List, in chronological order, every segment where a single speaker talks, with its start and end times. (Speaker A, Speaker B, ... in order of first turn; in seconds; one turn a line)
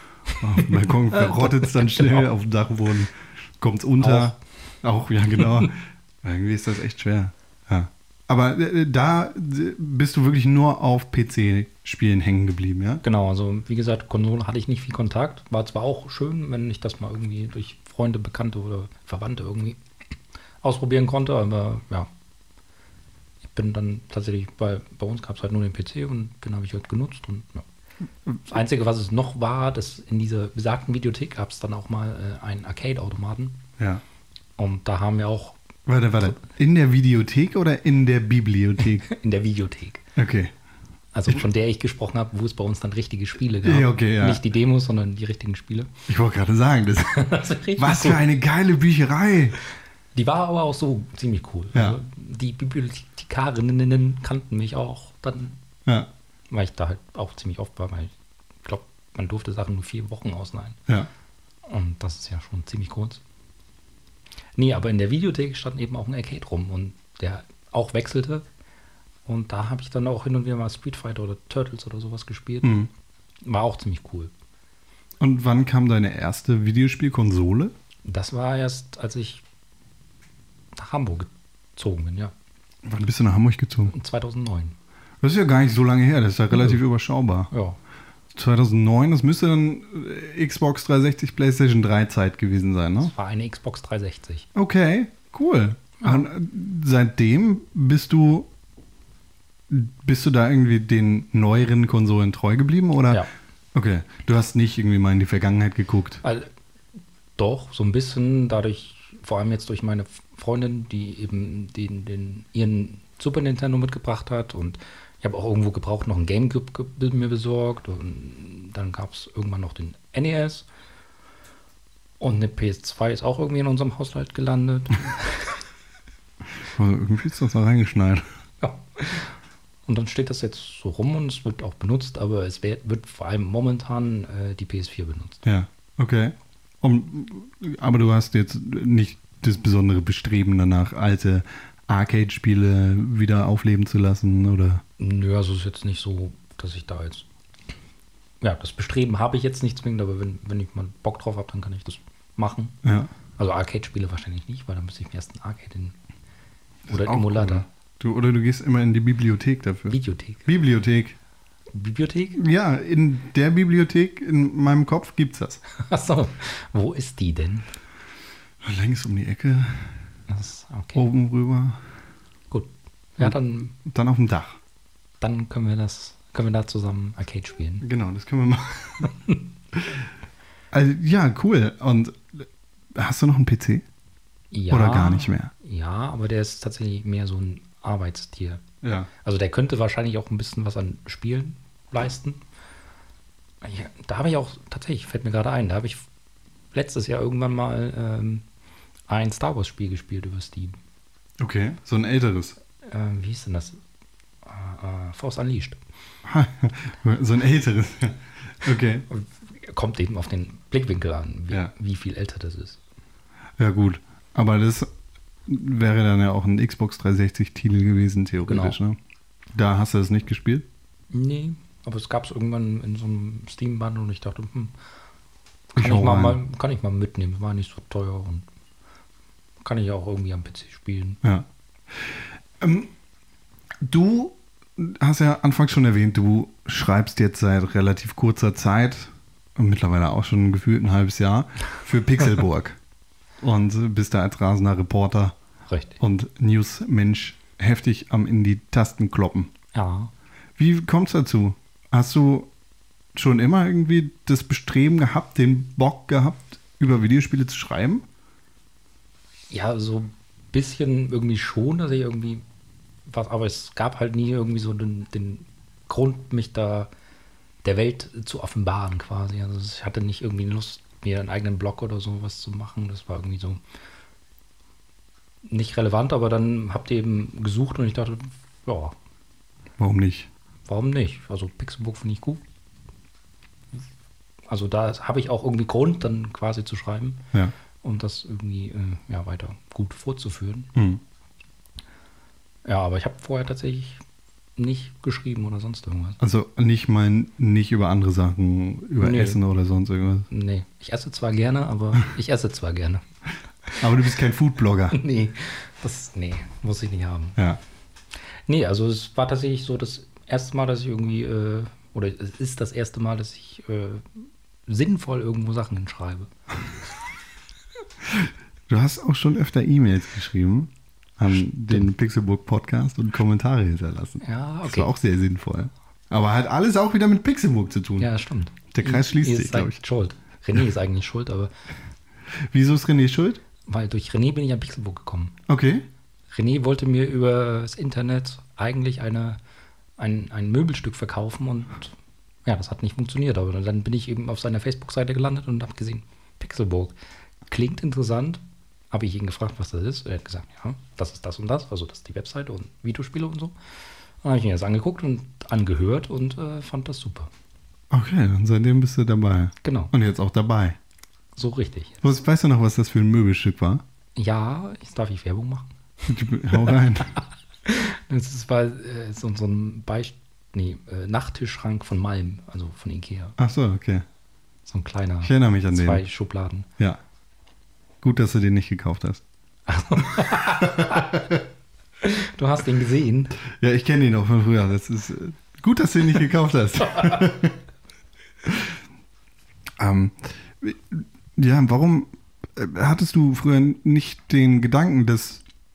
Speaker A: 0.3-2.2
Speaker B: 0.4-13.0
Speaker A: 4.0-4.4
Speaker A: 5.4-5.7
Speaker A: 13.0-19.8
Speaker A: 20.6-22.1
Speaker A: 23.4-27.7
Speaker A: 28.3-33.6
Speaker A: 34.6-35.6
Speaker B: 35.9-39.1
Speaker A: 39.0-40.0
Speaker B: 40.2-40.5
Speaker A: 41.1-45.9
Speaker B: 43.6-44.4
Speaker B: 46.1-49.6
Speaker A: 47.1-48.2
Speaker A: 50.1-55.6
Speaker B: 51.7-52.0
Speaker A: 56.5-58.1
Speaker A: 58.6-60.8
Speaker A: 61.7-63.2
Speaker A: 64.6-68.5
Speaker A: 69.3-72.9
Speaker B: 72.6-72.9
Speaker A: 73.4-74.3
Speaker B: 75.2-77.7
Speaker A: 78.0-79.4
Speaker A: 80.8-82.3
Speaker B: 82.8-83.9
Speaker A: 83.9-84.8
Speaker B: 85.2-87.5
Speaker A: 86.5-86.8
Speaker A: 87.5-87.8
Speaker B: 88.3-93.1
Speaker A: 93.0-94.5
Speaker B: 94.5-98.5
Speaker A: 96.0-96.3
Speaker B: 99.7-106.2
Speaker A: 106.2-106.5
Speaker A: 107.4-120.7
Speaker A: 122.2-125.6
Speaker B: 126.6-128.2
Speaker A: 128.6-129.3
Speaker A: 129.9-135.4
Speaker B: 135.4-144.8
Speaker A: 145.0-147.3
Speaker A: 148.4-152.8
Speaker B: 152.8-153.1
Speaker A: 153.4-156.0
Speaker B: 156.9-161.2
Speaker A: 156.9-157.7
Speaker A: 159.9-160.5
Speaker A: 161.7-162.4
Speaker B: 162.4-165.6
Speaker A: 165.8-167.7
Speaker B: 168.6-169.9
Speaker A: 170.3-171.0
Speaker B: 170.9-171.8
Speaker A: 172.5-173.8
Speaker B: 173.2-174.6
Speaker A: 175.2-177.8
Speaker B: 177.8-179.1
Speaker A: 179.0-179.4
Speaker B: 179.8-180.0
Speaker B: 180.7-183.8
Speaker A: 184.5-188.6
Speaker B: 184.7-185.5
Speaker B: 188.8-189.1
Speaker A: 189.2-192.4
Speaker A: 193.6-196.1
Speaker A: 196.7-198.4
Speaker A: 199.1-200.8
Speaker B: 201.4-202.6
Speaker A: 202.8-203.8
Speaker A: 204.5-205.8
Speaker B: 206.2-209.1
Speaker A: 209.1-212.8
Speaker B: 213.6-214.9
Speaker B: 215.5-219.0
Speaker A: 218.5-218.8
Speaker B: 219.5-220.7
Speaker A: 221.1-224.7
Speaker B: 225.8-226.4
Speaker A: 225.8-228.5
Speaker A: 229.6-231.2
Speaker B: 231.2-232.9
Speaker B: 233.8-242.8
Speaker B: 243.4-245.3
Speaker A: 245.7-246.0
Speaker B: 246.0-249.5
Speaker A: 249.7-250.1
Speaker B: 250.6-252.5
Speaker B: 253.1-258.1
Speaker A: 259.5-262.4
Speaker A: 263.1-266.9
Speaker A: 267.6-273.6
Speaker A: 275.5-278.9
Speaker B: 279.8-280.3
Speaker A: 280.7-282.4
Speaker A: 284.5-287.2
Speaker A: 287.8-290.7
Speaker B: 290.8-291.0
Speaker A: 292.7-294.0
Speaker A: 294.6-296.2
Speaker B: 296.2-300.3
Speaker A: 299.0-299.4
Speaker A: 300.3-303.0
Speaker B: 303.8-305.0
Speaker A: 304.9-307.4
Speaker A: 308.5-316.3
Speaker B: 318.1-328.1
Speaker A: 321.3-321.9
Speaker A: 324.2-324.9
Speaker A: 328.0-331.5
Speaker B: 328.7-329.8
Speaker B: 332.5-333.4
Speaker A: 333.7-335.4
Speaker B: 335.5-335.9
Speaker A: 336.3-339.4
Speaker A: 340.0-341.9
Speaker A: 342.5-346.9
Speaker A: 347.5-353.5
Speaker A: 354.2-357.3
Speaker B: 357.9-360.8
Speaker A: 359.6-359.9
Speaker A: 361.4-362.0
Speaker B: 362.0-363.8
Speaker A: 364.2-365.7
Speaker B: 366.1-367.1
Speaker A: 366.5-366.8
Speaker A: 367.6-373.4
Speaker B: 373.4-374.1
Speaker A: 374.7-376.7
Speaker B: 375.2-376.0
Speaker B: 378.0-379.2
Speaker A: 379.7-381.3
Speaker B: 380.6-381.4
Speaker A: 382.0-383.4
Speaker B: 383.6-387.6
Speaker B: 388.5-388.7
Speaker B: 389.8-395.4